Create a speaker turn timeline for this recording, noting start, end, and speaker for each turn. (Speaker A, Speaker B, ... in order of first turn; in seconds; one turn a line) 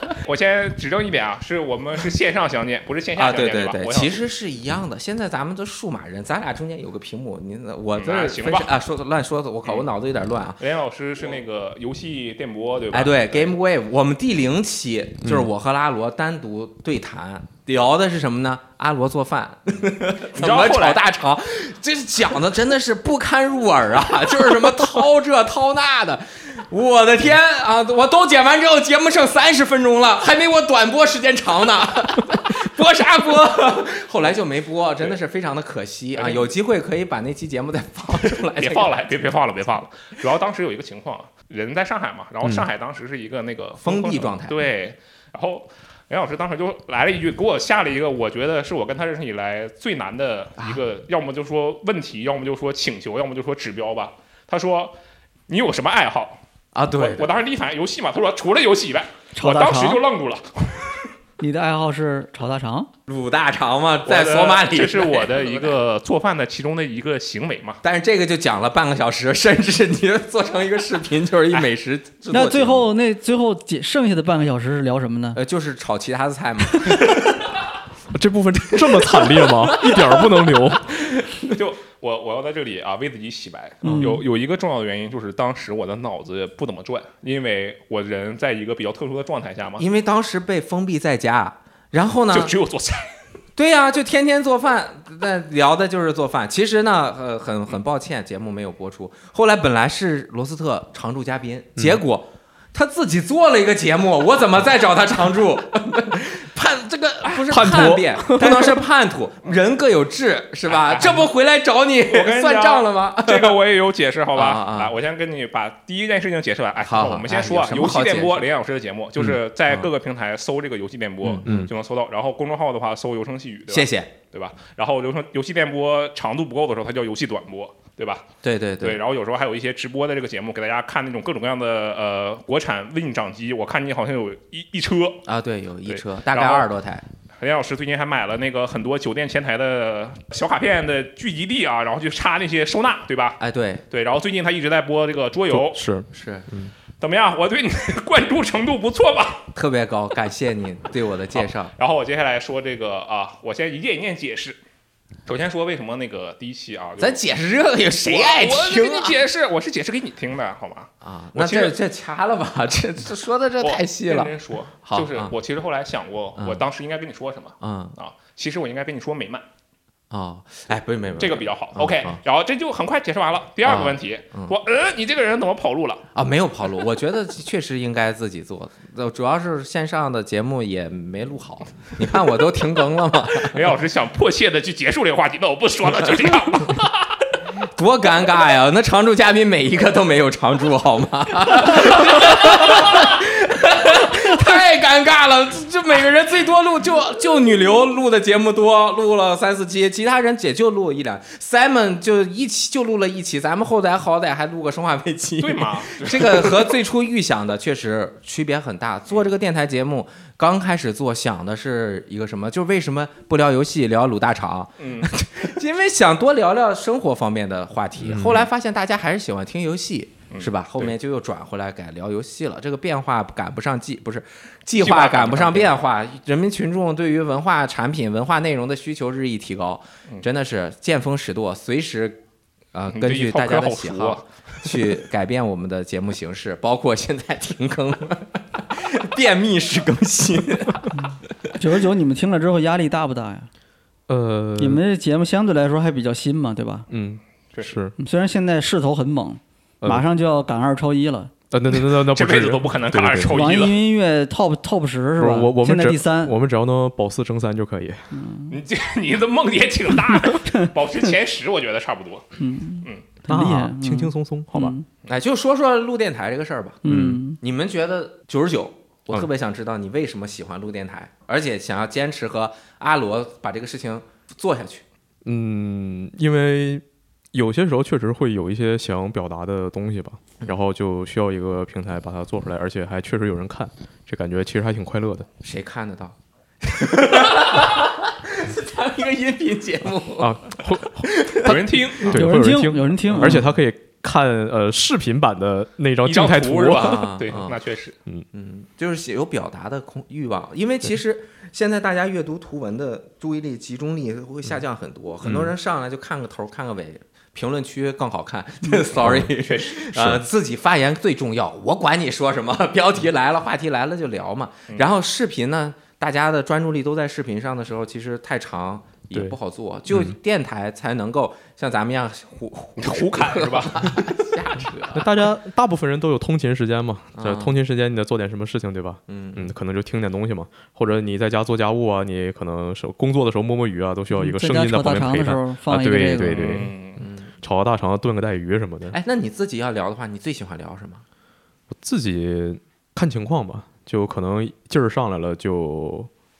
Speaker A: 0.2-4.2
Speaker B: 3.2-10.6
Speaker A: 8.0-8.7
Speaker A: 10.6-13.6
Speaker B: 12.9-39.0
Speaker C: 15.2-15.5
Speaker A: 20.2-21.1
Speaker A: 36.1-36.5
Speaker A: 38.5-55.0
Speaker B: 43.8-44.6
Speaker A: 55.5-56.4
Speaker B: 56.8-57.3
Speaker A: 56.9-61.1
Speaker D: 59.4-60.0
Speaker D: 61.4-62.9
Speaker B: 63.1-65.8
Speaker A: 64.1-67.8
Speaker B: 67.8-72.9
Speaker D: 72.3-75.4
Speaker B: 75.3-77.5
Speaker C: 78.1-81.0
Speaker B: 78.8-80.4
Speaker B: 81.1-81.4
Speaker A: 81.4-89.8
Speaker D: 83.8-84.2
Speaker B: 89.8-92.5
Speaker A: 92.3-93.1
Speaker B: 93.6-113.6
Speaker C: 107.3-108.8
Speaker A: 110.7-111.3
Speaker A: 112.1-128.3
Speaker B: 114.3-114.9
Speaker B: 116.9-118.5
Speaker B: 119.2-119.9
Speaker B: 121.2-121.7
Speaker B: 123.7-124.1
Speaker B: 128.4-129.0
Speaker A: 128.8-135.3
Speaker B: 135.3-137.0
Speaker A: 135.9-136.7
Speaker A: 137.4-143.4
Speaker B: 143.4-143.8
Speaker A: 143.9-145.8
Speaker C: 145.5-146.7
Speaker B: 146.1-146.5
Speaker A: 147.0-149.5
Speaker B: 149.5-151.7
Speaker A: 151.3-154.6
Speaker A: 155.3-157.2
Speaker B: 157.0-159.2
Speaker A: 158.1-161.8
Speaker B: 161.0-164.3
Speaker A: 163.6-169.4
Speaker B: 164.8-165.3
Speaker B: 167.6-167.9
Speaker B: 170.1-172.2
Speaker A: 171.2-176.1
Speaker B: 173.6-174.6
Speaker B: 176.2-183.7
Speaker A: 183.4-186.9
Speaker B: 187.8-232.2
Speaker A: 192.2-192.7
Speaker A: 205.4-206.8
Speaker A: 214.8-215.1
Speaker C: 218.0-218.5
Speaker A: 220.3-220.9
Speaker A: 224.8-225.8
Speaker B: 232.7-240.9
Speaker A: 232.9-234.9
Speaker D: 240.9-243.5
Speaker C: 244.1-244.8
Speaker D: 244.6-246.9
Speaker C: 246.9-247.9
Speaker D: 248.0-251.3
Speaker C: 251.5-253.4
Speaker A: 251.7-253.8
Speaker D: 253.2-256.4
Speaker C: 255.2-258.1
Speaker D: 258.1-258.5
Speaker A: 258.5-262.3
Speaker D: 260.3-260.7
Speaker D: 262.4-264.9
Speaker C: 263.3-264.8
Speaker B: 265.1-266.8
Speaker D: 266.8-267.4
Speaker C: 266.9-267.2
Speaker B: 267.4-274.8
Speaker C: 275.2-285.3
Speaker B: 285.4-292.2
Speaker C: 290.2-297.2
Speaker A: 291.4-292.2
Speaker D: 292.1-293.4
Speaker A: 296.1-297.9
Speaker B: 296.8-297.6
Speaker B: 298.3-325.1
Speaker C: 305.2-305.5
Speaker C: 308.9-309.3
Speaker A: 309.4-309.8
Speaker C: 309.9-310.2
Speaker C: 319.9-320.2
Speaker A: 322.8-324.1
Speaker C: 324.9-336.7
Speaker B: 327.2-327.6
Speaker B: 329.1-329.5
Speaker D: 334.2-336.6
Speaker A: 336.2-337.0
Speaker B: 337.0-337.3
Speaker C: 337.4-339.0
Speaker B: 338.9-341.0
Speaker C: 341.7-346.1